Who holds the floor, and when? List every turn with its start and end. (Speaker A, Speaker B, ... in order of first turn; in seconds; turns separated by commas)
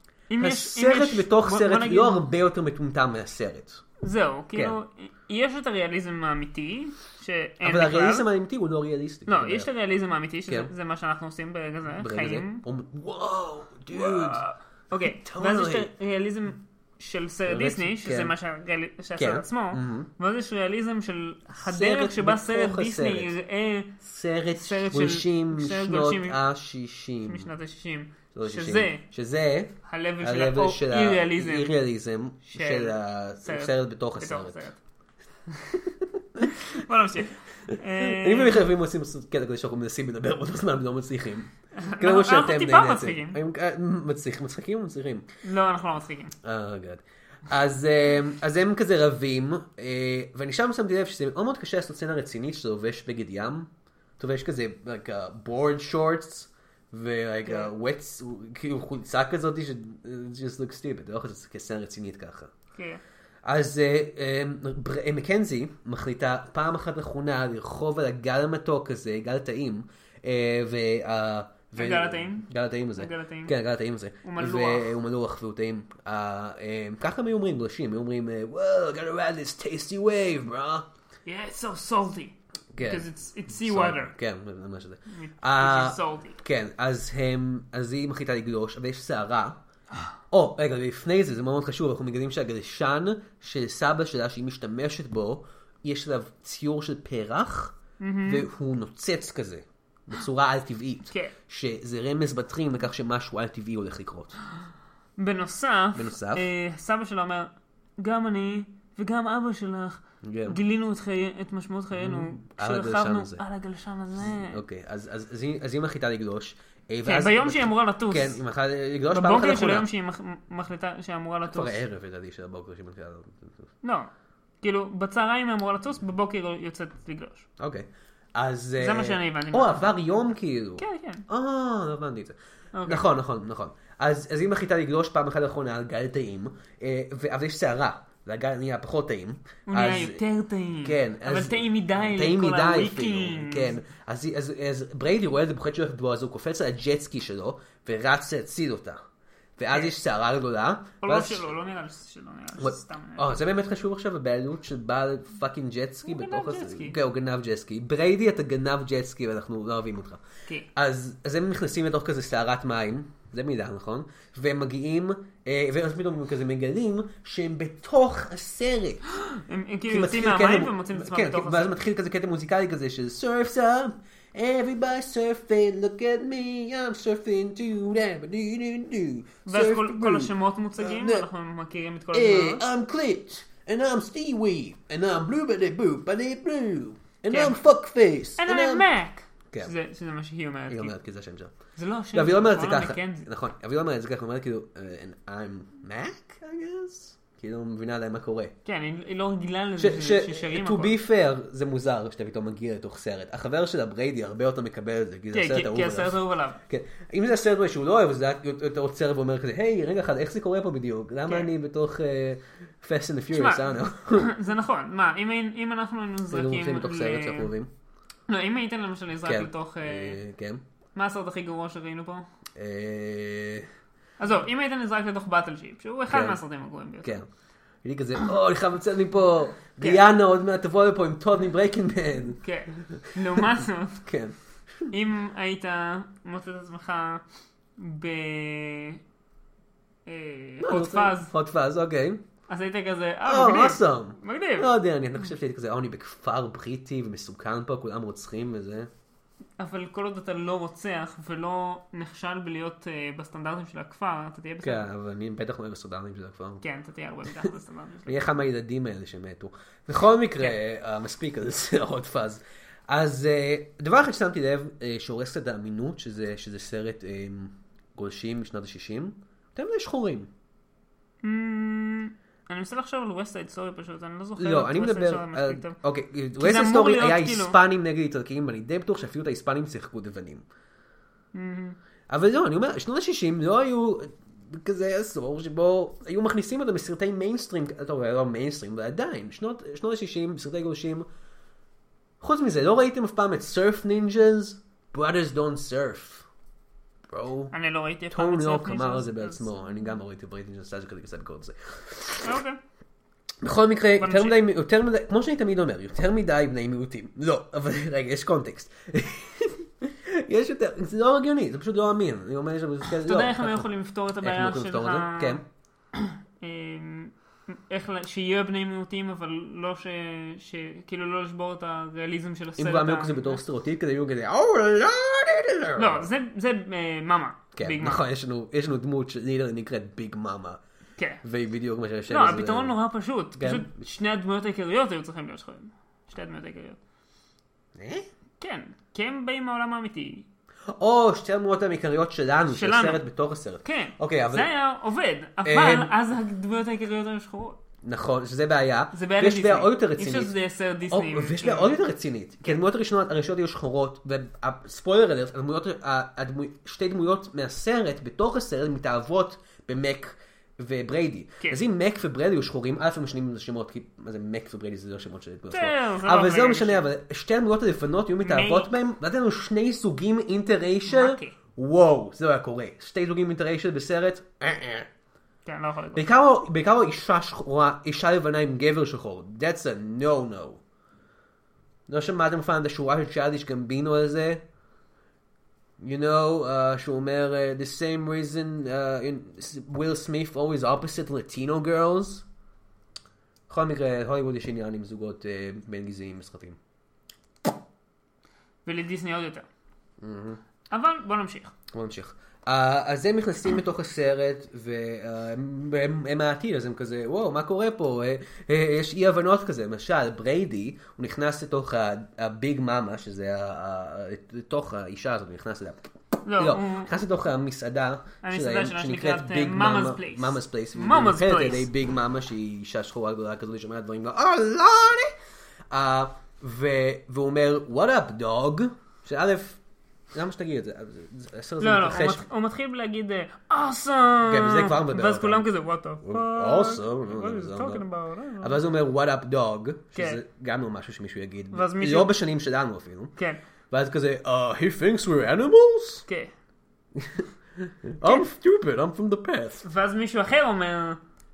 Speaker A: 0.3-2.3, Speaker B: 0.4-3.8, Speaker A: 4.0-8.2, Speaker B: 7.6-9.7, Speaker A: 9.3-12.6, Speaker B: 11.9-14.4, Speaker A: 13.9-23.9, Speaker B: 15.0-15.9, Speaker B: 17.5-18.3, Speaker B: 19.2-20.1, Speaker B: 21.5-23.3, Speaker B: 24.0-27.5, Speaker A: 24.6-26.4, Speaker A: 27.2-29.0, Speaker B: 28.3-34.6, Speaker A: 29.8-31.7, Speaker A: 32.5-34.8, Speaker B: 35.7-36.6, Speaker A: 36.4-38.6, Speaker B: 37.7-45.2, Speaker A: 41.8-43.4, Speaker A: 45.4-46.3, Speaker B: 46.4-62.5, Speaker A: 57.4-57.7, Speaker A: 62.7-63.0, Speaker B: 63.4-80.8, Speaker A: 71.8-73.5, Speaker A: 74.2-74.9, Speaker A: 81.2-84.1, Speaker B: 82.7-89.6, Speaker A: 85.1-86.4, Speaker B: 90.3-104.4, Speaker A: 98.0-98.5, Speaker A: 105.2-114.6, Speaker B: 105.9-106.5, Speaker B: 110.2-110.6, Speaker B: 112.0-113.4, Speaker B: 114.2-119.9, Speaker A: 117.0-118.4, Speaker A: 119.1-121.8, Speaker B: 121.5-123.7, Speaker A: 123.8-124.1, Speaker A: 124.6-127.5, Speaker B: 127.6-140.2, Speaker A: 128.8-129.9, Speaker A: 130.8-131.2, Speaker A: 132.7-133.1, Speaker A: 139.7-143.7, Speaker B: 140.8-149.0, Speaker B: 149.6-151.5, Speaker A: 151.0-153.4, Speaker B: 152.6-160.2, Speaker A: 156.1-157.0, Speaker B: 160.7-169.0, Speaker A: 169.1-171.8, Speaker B: 169.9-181.3, Speaker A: 179.4-182.7, Speaker B: 182.1-188.9, Speaker A: 187.3-187.6, Speaker A: 188.4-190.9, Speaker B: 190.7-191.5, Speaker A: 191.8-193.3, Speaker B: 192.1-198.5, Speaker A: 198.6-200.9, Speaker B: 199.8-214.3, Speaker A: 205.3-206.6, Speaker A: 211.2-211.5, Speaker A: 213.3-217.5, Speaker B: 216.3-217.7, Speaker A: 218.3-220.2, Speaker B: 219.2-220.6, Speaker A: 220.9-222.3, Speaker B: 222.6-223.7, Speaker A: 224.2-227.2, Speaker B: 226.1-226.4, Speaker B: 227.0-227.3, Speaker B: 227.8-233.1, Speaker A: 232.4-234.1, Speaker B: 234.0-234.9, Speaker A: 234.9-237.2, Speaker A: 237.8-239.0, Speaker A: 240.1-241.3, Speaker B: 240.6-242.2, Speaker A: 242.5-244.7, Speaker B: 243.2-248.9, Speaker A: 249.6-254.9, Speaker B: 254.6-256.6, Speaker A: 256.6-258.2, Speaker B: 258.1-270.3, Speaker A: 271.2-275.8, Speaker B: 274.4-280.4, Speaker A: 276.4-277.6, Speaker A: 281.3-281.8, Speaker B: 282.1-291.1, Speaker B: 292.2-296.2, Speaker B: 297.1-297.5, Speaker A: 297.5-300.0, Speaker B: 298.1-302.3, Speaker A: 302.2-302.6, Speaker B: 303.4-313.7, Speaker A: 304.0-304.4, Speaker A: 313.0-315.4, Speaker B: 314.2-315.4, Speaker A: 315.9-323.4, Speaker B: 322.6-326.1, Speaker A: 325.8-328.0, Speaker B: 327.5-330.6, Speaker A: 331.0-331.2, Speaker B: 331.2-332.8, Speaker A: 332.1-336.8, Speaker B: 333.4-333.7, Speaker B: 337.8-338.1, Speaker A: 338.4-340.2, Speaker B: 340.7-344.5, Speaker A: 342.5-343.0, Speaker A: 343.6-347.6, Speaker B: 345.4-345.9, Speaker B: 347.8-350.3, Speaker A: 348.9-351.8, Speaker B: 350.9-374.9, Speaker A: 365.5-366.9, Speaker A: 368.2-368.7, Speaker A: 370.9-371.4, Speaker A: 375.4-376.0, Speaker B: 375.9-380.6, Speaker B: 381.9-384.4, Speaker B: 385.8-392.2, Speaker B: 393.5-396.6, Speaker A: 398.6-399.5, Speaker B: 400.0-400.4, Speaker A: 400.7-401.5, Speaker B: 401.7-425.1, Speaker A: 416.2-417.0, Speaker A: 418.2-421.7, Speaker B: 425.7-429.6, Speaker B: 430.1-432.2, Speaker A: 431.6-438.6, Speaker B: 434.2-435.4, Speaker B: 436.0-437.8, Speaker B: 438.4-443.1, Speaker A: 439.9-440.2, Speaker A: 441.5-442.1, Speaker B: 443.7-446.0, Speaker A: 446.1-446.3, Speaker B: 446.9-449.6, Speaker A: 449.6-451.0